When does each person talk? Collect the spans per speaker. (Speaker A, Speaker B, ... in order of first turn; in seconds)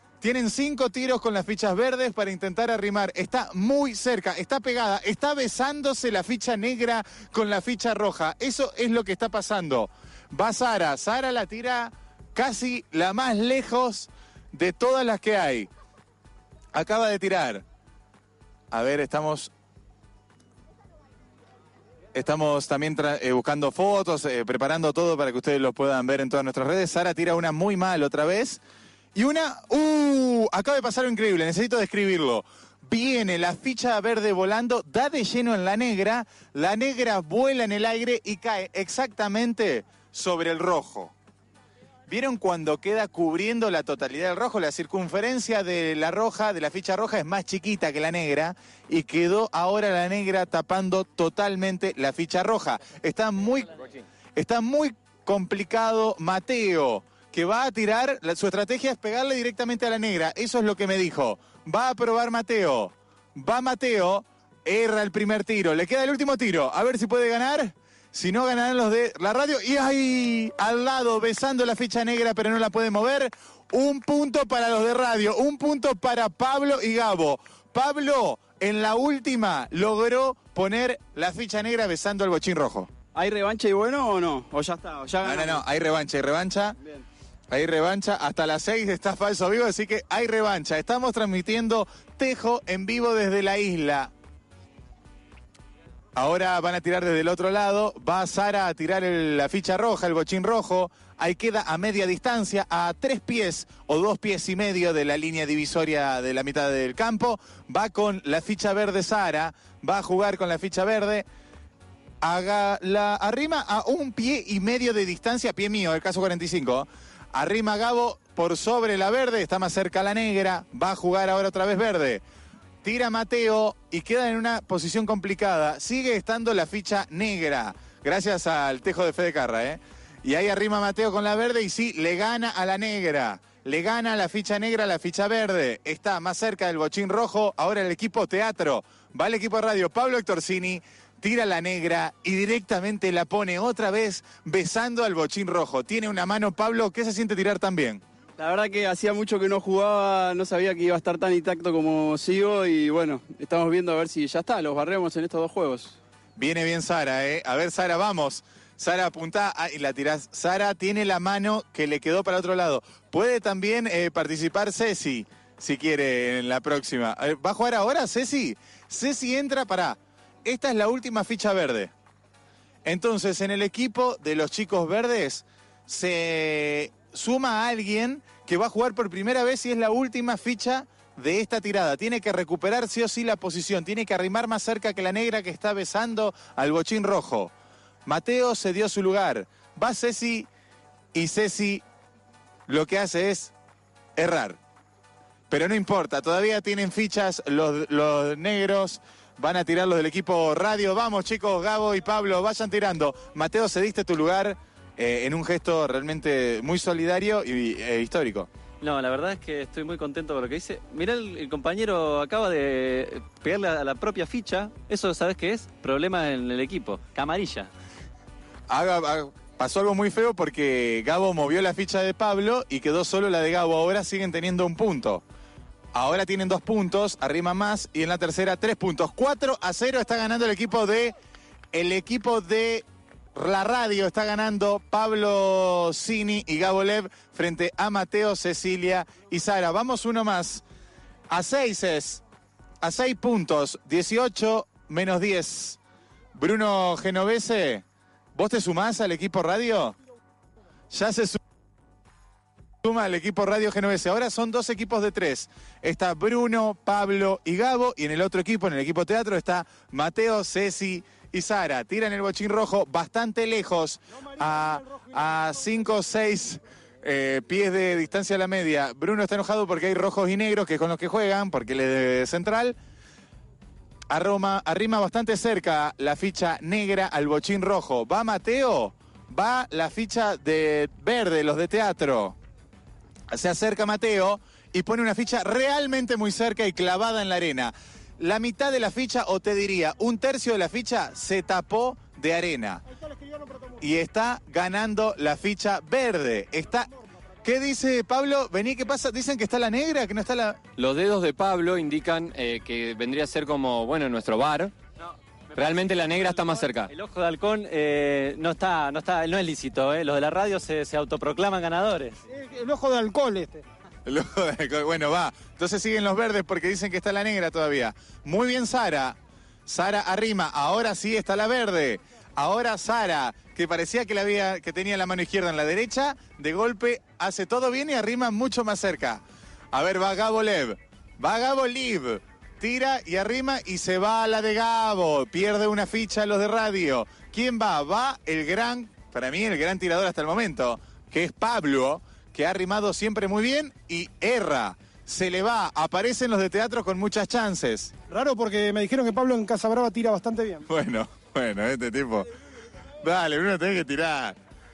Speaker A: 0.2-15.7, 16.7-17.6, 18.7-19.5, 22.1-28.6, 29.1-41.1, 42.1-53.7, 54.4-82.9, 85.2-86.8, 87.5-94.1, 96.1-111.2, 112.2-122.2, 122.8-148.0, 156.4-171.9, 172.8-187.5, 188.1-190.5, 191.1-191.8, 192.7-193.5, 194.2-194.6, 195.5-208.5, 218.7-225.2, 225.9-231.1, 231.7-240.6, 241.3-242.2, 242.8-245.8, 246.3-249.9, 250.9-251.4, 252.8-272.8, 274.1-282.4, 283.3-292.8, 293.8-296.9, 297.4-300.6, 314.1-347.9, 350.6-352.3, 353.0-354.4
Speaker B: 83.1-85.6, 148.4-156.0
Speaker C: 208.8-217.7, 305.0-312.2
Speaker D: 264.5-265.1, 293.1-293.7, 312.3-313.6, 348.1-350.6
Speaker E: 300.8-304.7, 305.5-306.9